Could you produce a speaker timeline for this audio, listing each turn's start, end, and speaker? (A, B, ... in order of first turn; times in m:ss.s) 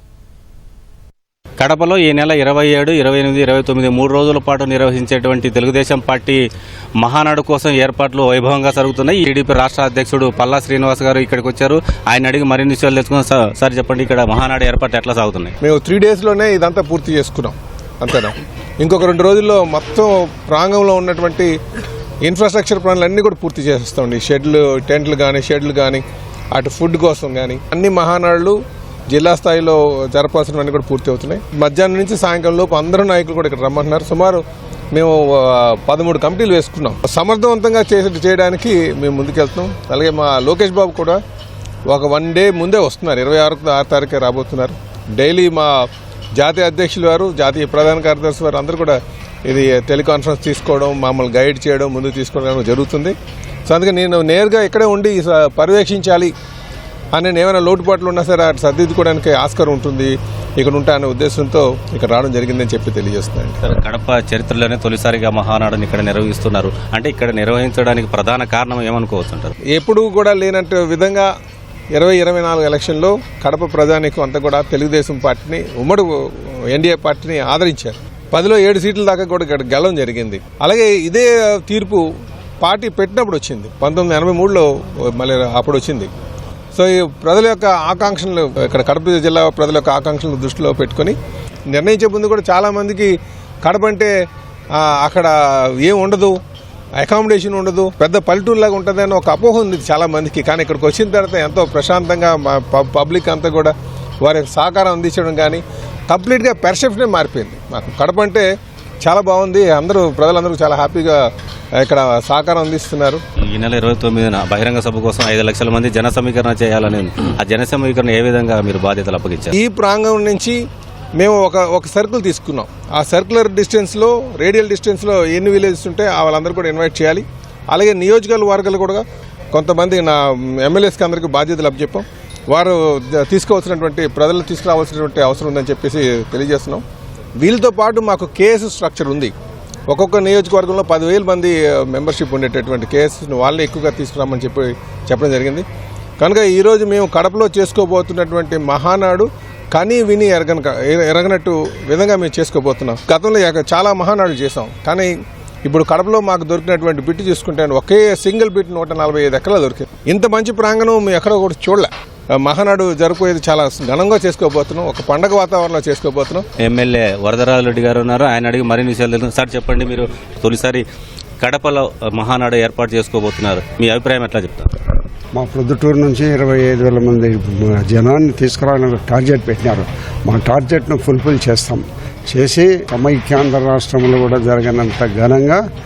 0:01.6-0:06.4 A
0:07.0-0:15.5 A
0:15.6-0:21.5 B
0:22.2-0:28.6 B
0:29.1-0:41.2 B
0:41.9-0:45.8 B
0:46.4-0:53.2 B
0:53.7-0:56.3 B
0:57.1-1:03.6 B
1:03.6-1:09.5 A
1:09.7-1:11.3 B
1:12.0-1:22.1 B
1:22.6-1:26.1 B
1:26.7-1:31.2 B
1:31.7-1:34.1 B
1:34.8-1:36.4 B
1:37.0-1:48.5 B
1:49.0-1:51.2 B
1:51.8-1:53.2 B
1:53.5-1:59.6 A
1:59.5-2:00.6 B
2:01.2-2:16.8 B
2:17.4-2:19.3 B
2:19.9-2:25.7 B
2:26.2-2:35.1 B
2:35.6-2:46.5 B
2:46.6-2:50.8 A
2:51.4-2:54.7 A
2:55.3-3:05.6 C